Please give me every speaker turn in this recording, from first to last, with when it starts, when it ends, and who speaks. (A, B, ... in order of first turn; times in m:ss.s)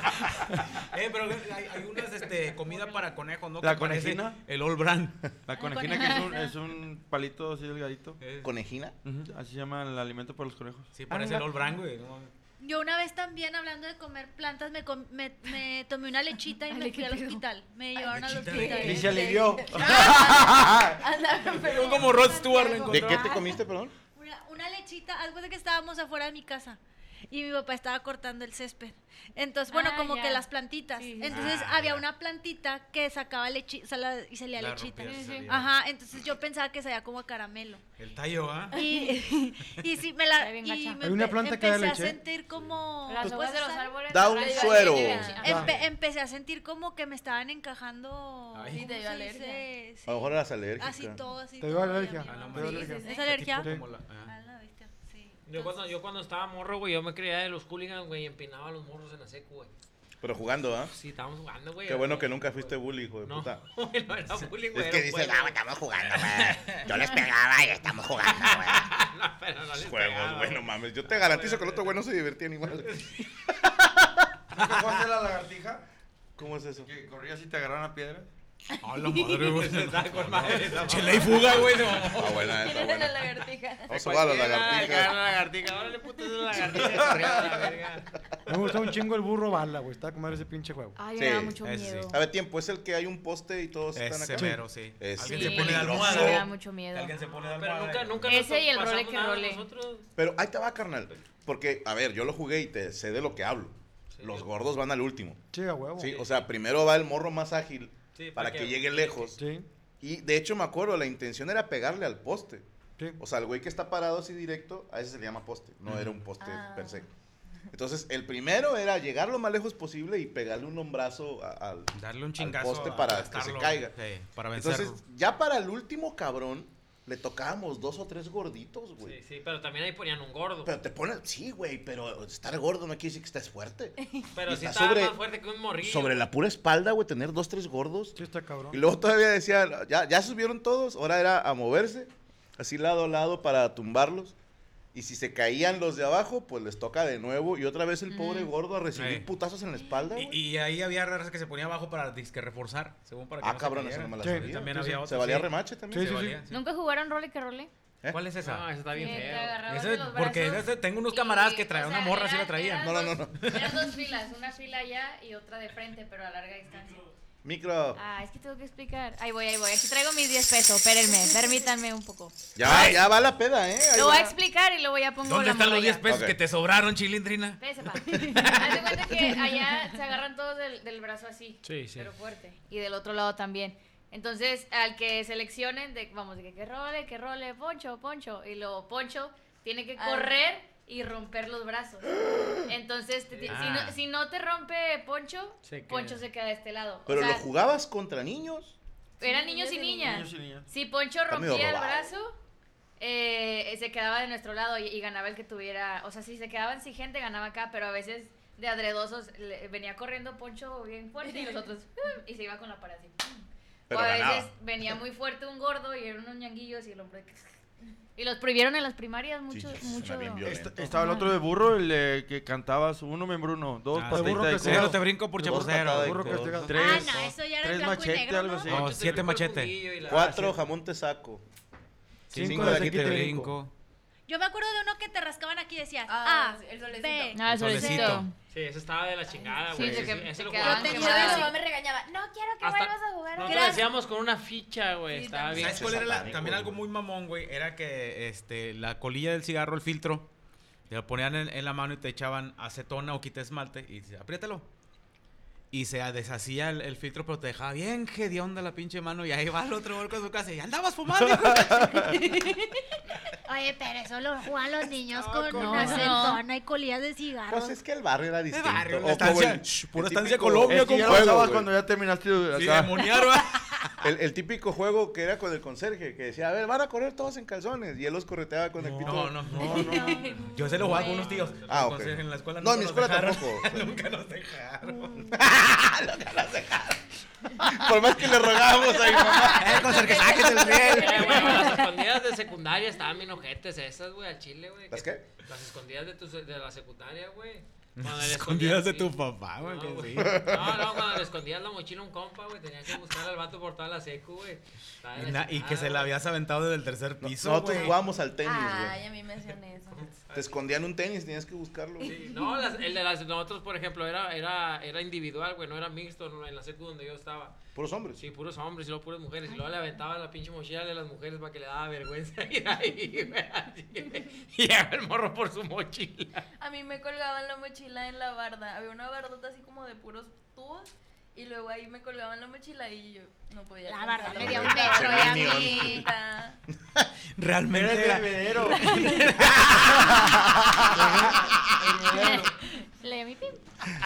0:00.8-0:05.2 A
0:02.7-0:03.0 B
0:03.6-0:04.4 C
0:05.5-0:08.2 C
0:05.5-0:06.5 B
0:08.2-0:08.5 A
0:08.4-0:08.9 D
0:09.0-0:10.9 C
0:10.9-0:12.3 A
0:11.1-0:11.6 E
0:12.6-0:20.7 B
0:16.7-0:17.4 F
0:18.0-0:19.2 A
0:18.6-0:23.3 G
0:18.6-0:19.6 F
0:18.8-0:21.0 C
0:21.5-0:23.3 A
0:21.7-0:23.6 B
0:22.9-0:23.9 D
0:24.2-0:37.8 B
0:29.7-0:31.5 F
0:31.2-0:32.0 A
0:34.6-0:35.8 A
0:35.1-0:35.5 F
0:38.0-0:38.8 A
0:38.7-0:55.9 B
0:40.3-0:41.2 F
0:41.0-0:42.2 E
0:43.1-0:45.8 F
0:44.1-0:45.4 D
0:44.4-0:45.7 G
0:45.4-0:45.8 E
0:45.5-0:45.9 A
0:48.5-0:48.8 A
0:48.7-0:49.7 G
0:50.1-0:51.2 D
0:51.6-0:53.8 E
0:52.3-0:54.3 A
0:52.5-0:53.3 G
0:55.5-0:59.7 H
1:00.2-1:00.9 D
1:00.9-1:05.6 H
1:01.8-1:03.6 D
1:04.7-1:08.9 D
1:08.2-1:11.9 H
1:09.7-1:13.1 D
1:12.9-1:13.2 H
1:13.6-1:14.3 D
1:14.5-1:15.8 C
1:16.4-1:16.9 D
1:16.8-1:18.3 C
1:18.8-1:22.5 A
1:19.0-1:19.4 G
1:19.4-1:21.9 H
1:22.1-1:25.2 D
1:22.4-1:24.1 G
1:23.9-1:28.2 H
1:26.8-1:27.5 C
1:28.5-1:31.0 E
1:31.0-1:32.2 F
1:31.2-1:31.6 D
1:31.6-1:32.1 A
1:32.1-1:36.4 D
1:34.0-1:38.4 A
1:35.2-1:37.2 F
1:35.3-1:36.4 H
1:37.3-1:40.1 H
1:38.3-1:39.6 F
1:40.2-1:45.4 D
1:44.1-1:44.5 H
1:45.5-1:46.1 E
1:46.0-1:49.4 D
1:48.2-1:49.3 H
1:49.4-1:49.7 E
1:50.0-1:52.7 D
1:53.2-1:57.1 D
1:55.9-1:56.2 A
1:56.4-1:57.1 G
1:57.7-2:04.0 D
2:01.9-2:05.0 A
2:04.5-2:09.2 D
2:09.0-2:10.8 H
2:10.6-2:15.2 D
2:14.3-2:16.2 H
2:15.8-2:18.2 D
2:18.2-2:18.8 E
2:18.7-2:24.4 D
2:24.9-2:30.4 D
2:29.0-2:29.3 A
2:30.2-2:36.6 A
2:33.4-2:36.2 D
2:34.2-2:35.0 E
2:35.9-2:36.5 E
2:36.5-2:37.7 F
2:38.1-2:43.8 A
2:38.4-2:39.6 H
2:38.9-2:47.0 F
2:42.8-2:43.6 D
2:47.4-2:48.0 D
2:48.0-2:52.9 F
2:52.6-2:54.4 D
2:52.7-2:53.0 A
2:53.9-2:56.1 F
2:55.2-2:59.0 A
2:56.1-2:56.4 D
2:57.6-3:12.1 F
3:01.6-3:02.1 H
3:10.0-3:10.4 G
3:12.7-3:17.4 F
3:13.3-3:13.6 H
3:13.4-3:14.0 A
3:15.6-3:16.2 H
3:17.1-3:18.8 D
3:19.2-3:22.4 F
3:19.2-3:20.0 G
3:20.0-3:20.7 C
3:21.3-3:22.1 D
3:23.0-3:37.5 F
3:33.9-3:34.6 D
3:38.2-3:41.4 F
3:39.5-3:40.9 D
3:40.4-3:49.1 C
3:43.9-3:46.4 A
3:44.1-3:45.1 E
3:45.4-3:47.2 D
3:45.6-3:46.9 E
3:46.7-3:48.8 B
3:48.7-3:50.6 H
3:48.7-3:49.8 A
3:50.1-3:51.4 D
3:52.3-3:53.7 A
3:52.3-3:53.4 D
3:52.3-3:53.6 E
3:54.3-3:58.2 B
3:56.1-3:57.4 G
3:57.3-3:58.3 F
3:57.4-3:58.3 A
3:58.5-4:01.4 H
3:59.3-3:59.9 G
3:59.7-4:01.5 F
4:00.6-4:01.6 B
4:00.6-4:03.8 G
4:02.6-4:05.9 H
4:03.4-4:03.9 B
4:05.1-4:06.2 G
4:05.5-4:06.8 D
4:05.5-4:10.3 A
4:10.9-4:14.7 A
4:15.7-4:22.1 A
4:21.1-4:22.2 C
4:22.1-4:22.4 F
4:23.5-4:27.8 B
4:25.1-4:26.1 C
4:25.5-4:25.9 A
4:25.5-4:26.4 F
4:27.5-4:31.7 D
4:28.5-4:31.5 A
4:30.7-4:33.0 C
4:32.5-4:33.9 A
4:34.0-4:39.7 D
4:38.8-4:45.4 A
4:39.0-4:40.2 C
4:39.9-4:40.3 G
4:40.0-4:40.4 F
4:40.9-4:41.2 G
4:40.9-4:41.8 H
4:41.7-4:43.8 D
4:45.2-4:47.0 D
4:47.6-4:50.5 D
4:49.5-4:51.6 A
4:49.8-4:51.8 G
4:50.8-5:06.2 H
4:54.9-4:55.2 D
4:58.0-5:00.6 A
5:00.2-5:01.0 D
5:05.2-5:08.0 A
5:07.2-5:09.0 D
5:08.4-5:10.1 G
5:09.9-5:10.6 H
5:10.3-5:12.1 D
5:12.0-5:17.6 H
5:17.8-5:18.2 D
5:18.2-5:26.5 H
5:26.6-5:36.6 G
5:33.9-5:36.0 B
5:34.2-5:36.1 D
5:35.0-5:36.0 F
5:37.4-5:40.0 A
5:37.7-5:39.3 C
5:40.8-5:42.5 C
5:42.0-5:42.5 F
5:43.0-5:43.5 F